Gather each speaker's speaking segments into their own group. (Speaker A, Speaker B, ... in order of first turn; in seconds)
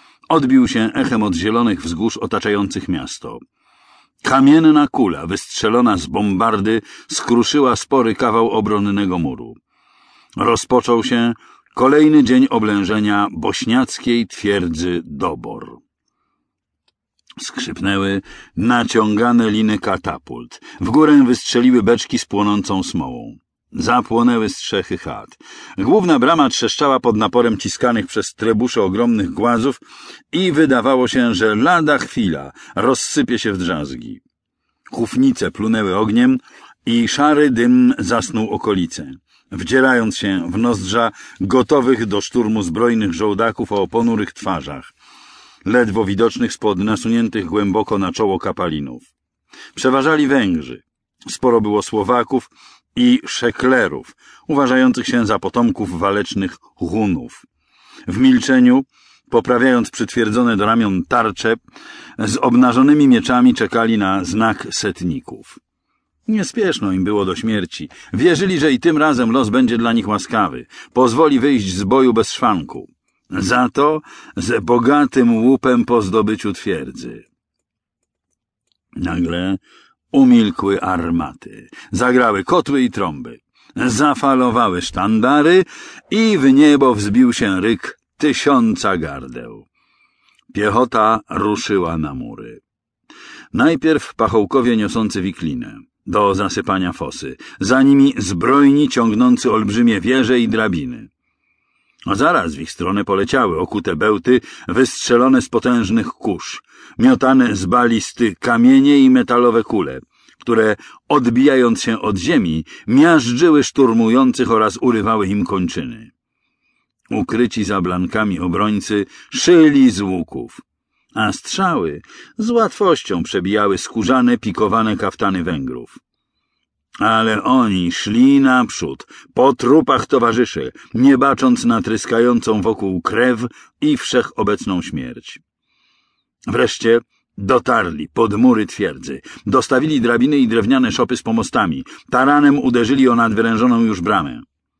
Speaker A: 0.3-3.4, 4.2-9.6, 10.4-15.8, 17.4-29.8, 30.3-34.2, 34.9-44.9, 45.6-49.1, 49.7-57.4, 58.1-61.6, 62.2-65.6, 66.3-77.2, 78.9-79.6, 80.1-89.7, 90.5-92.6, 93.5-101.1, 102.0-116.1, 117.1-120.6, 121.1-126.0, 127.0-135.4, 136.5-144.4